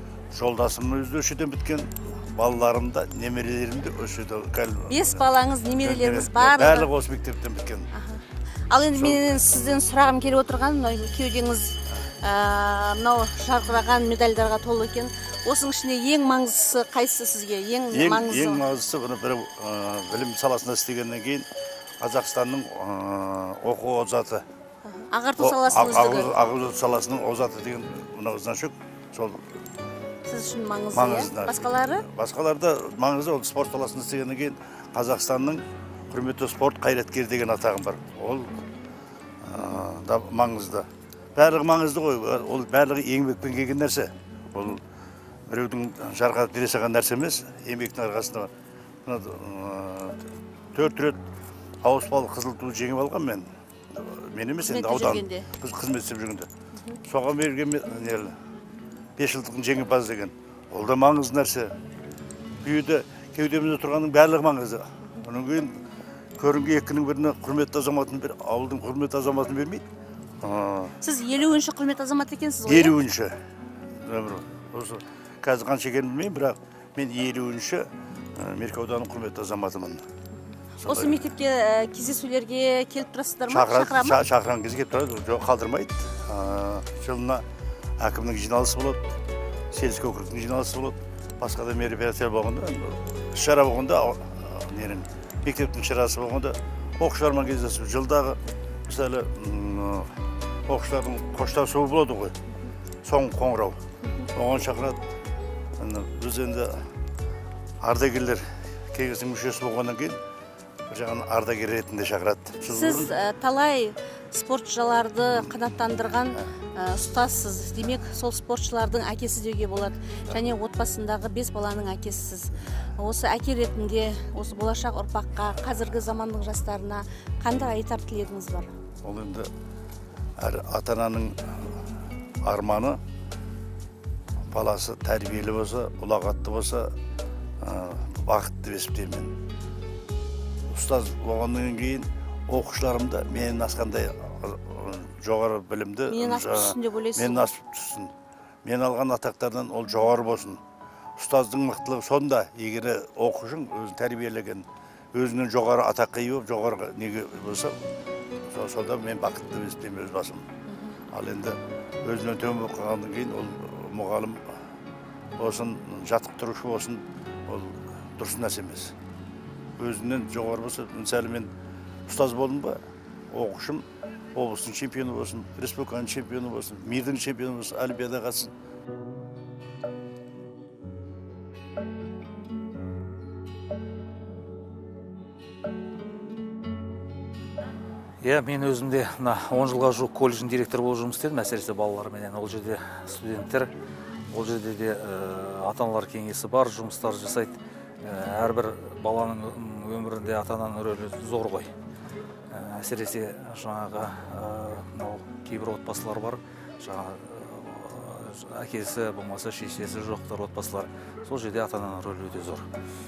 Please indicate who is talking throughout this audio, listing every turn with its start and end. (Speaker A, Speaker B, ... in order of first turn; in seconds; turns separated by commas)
Speaker A: 0.3-5.3, Speaker B: 4.9-6.9, Speaker A: 5.8-7.9, Speaker B: 7.9-18.6, Speaker A: 9.0-9.2, Speaker A: 17.9-21.5, Speaker A: 22.0-24.4, Speaker B: 24.9-26.4, Speaker A: 25.4-29.5, Speaker B: 30.2-32.0, Speaker A: 30.9-38.5, Speaker A: 39.4-44.8, Speaker A: 45.5-48.5, Speaker A: 49.0-50.2, Speaker A: 50.7-51.2, Speaker A: 51.8-56.5, Speaker B: 54.6-55.5, Speaker A: 57.0-58.3, Speaker A: 59.2-61.7, Speaker A: 62.6-65.8, Speaker A: 66.4-69.8, Speaker A: 70.4-71.0, Speaker B: 71.0-73.0, Speaker A: 72.7-73.3, Speaker A: 74.0-80.0, Speaker A: 80.8-81.2, Speaker B: 80.8-84.2, Speaker A: 83.5-87.4, Speaker A: 88.0-89.0, Speaker A: 89.7-100.1, Speaker A: 100.7-102.3, Speaker A: 103.0-103.8, Speaker A: 104.3-105.0, Speaker A: 105.8-106.8, Speaker A: 107.8-110.2, Speaker A: 110.9-113.1, Speaker B: 112.6-128.7, Speaker A: 129.0-129.5, Speaker A: 130.4-131.7, Speaker A: 132.4-133.0, Speaker A: 134.5-136.9, Speaker A: 137.6-139.3, Speaker A: 140.7-148.1, Speaker B: 146.1-147.5, Speaker A: 148.6-150.6, Speaker A: 151.2-157.7, Speaker A: 158.5-160.5, Speaker B: 160.7-160.9, Speaker A: 161.1-164.4, Speaker A: 165.4-168.9, Speaker A: 169.8-171.5, Speaker A: 172.1-172.8, Speaker A: 173.3-178.5, Speaker C: 188.2-193.7, Speaker C: 194.3-201.7, Speaker C: 202.5-212.7